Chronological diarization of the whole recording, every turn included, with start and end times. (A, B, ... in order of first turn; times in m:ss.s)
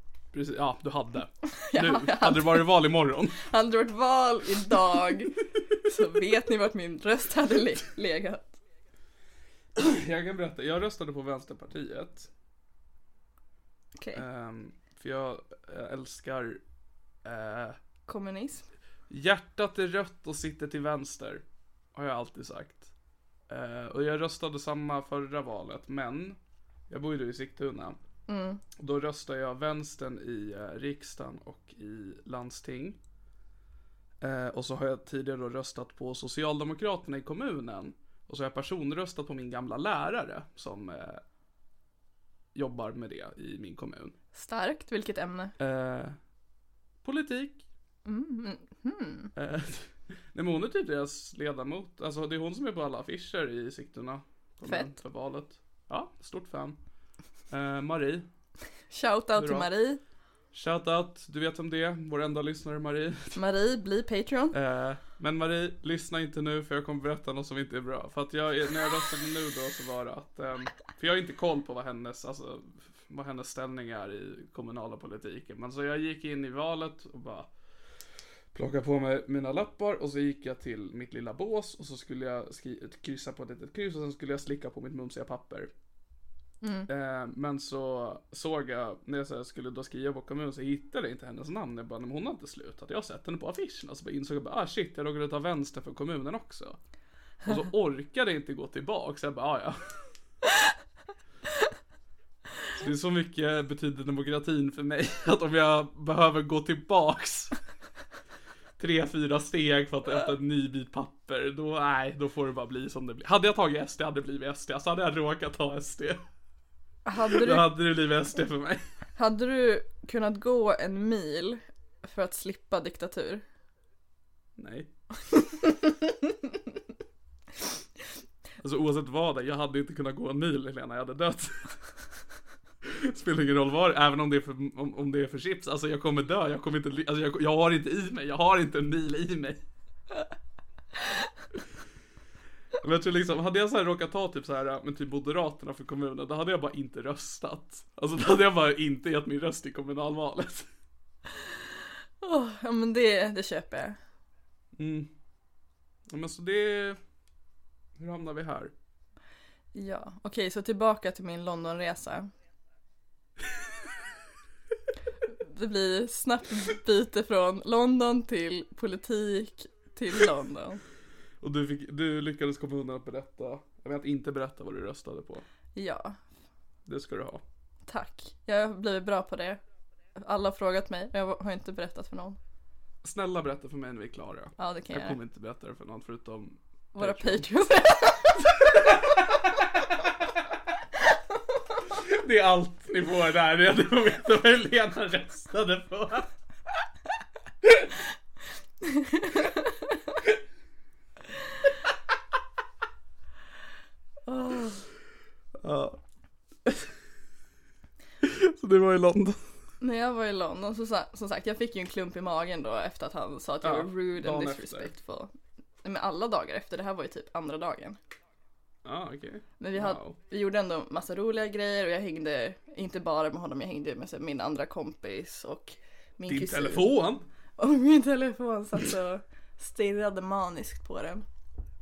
0:00.3-0:03.4 A
0:01.6-0:02.8 B
0:03.4-0:08.6 B
0:09.7-0:12.3 A
0:14.0-0:14.2 B
0:14.1-0:16.6 A
0:17.2-0:17.8 A
0:18.1-0:18.7 B
0:19.1-0:22.9 A
0:23.5-0:28.0 A
0:28.3-0:28.6 B
0:28.8-0:33.0 A
0:34.2-0:41.2 A
0:42.5-0:44.2 A
0:44.3-0:45.6 B
0:45.6-0:46.2 A
0:47.0-0:47.6 A
0:48.0-0:49.3 B
0:49.4-0:56.8 A
0:54.7-0:54.9 B
0:57.5-0:58.3 A
0:58.9-1:00.0 B
0:59.4-0:59.7 A
1:00.5-1:03.4 A
1:03.3-1:04.6 B
1:04.5-1:17.5 A
1:18.5-1:25.7 A
1:26.6-1:26.9 B
1:26.9-1:36.8 A
1:37.4-1:40.0 A
1:42.7-1:47.5 A
1:48.8-1:56.2 A
1:57.0-1:57.7 B
1:57.2-1:58.8 A
1:59.2-2:03.4 B
2:04.6-2:04.9 A
2:05.3-2:06.1 B
2:08.6-2:11.8 A
2:12.8-2:19.6 A
2:22.8-2:30.7 A
2:32.2-2:34.0 B
2:34.8-2:35.1 A
2:36.1-2:37.0 A
2:38.0-2:38.7 A
2:39.7-2:42.3 B
2:45.4-2:50.8 B
2:51.4-2:55.4 A
2:55.7-2:56.2 B
2:56.8-2:57.4 A
2:57.9-2:59.6 B
3:00.2-3:02.4 B
3:03.0-3:07.5 A
3:04.6-3:05.2 B
3:06.9-3:08.8 B
3:08.7-3:10.1 A
3:11.9-3:16.3 A
3:17.6-3:17.9 A
3:18.8-3:19.7 B
3:24.2-3:24.8 B
3:25.6-3:26.0 A
3:28.2-3:29.6 A
3:29.8-3:35.3 B
3:33.6-3:34.9 A
3:35.8-3:38.0 B
3:38.8-3:40.2 A
3:39.6-3:46.9 B
3:46.3-3:47.2 A
3:47.6-3:51.2 B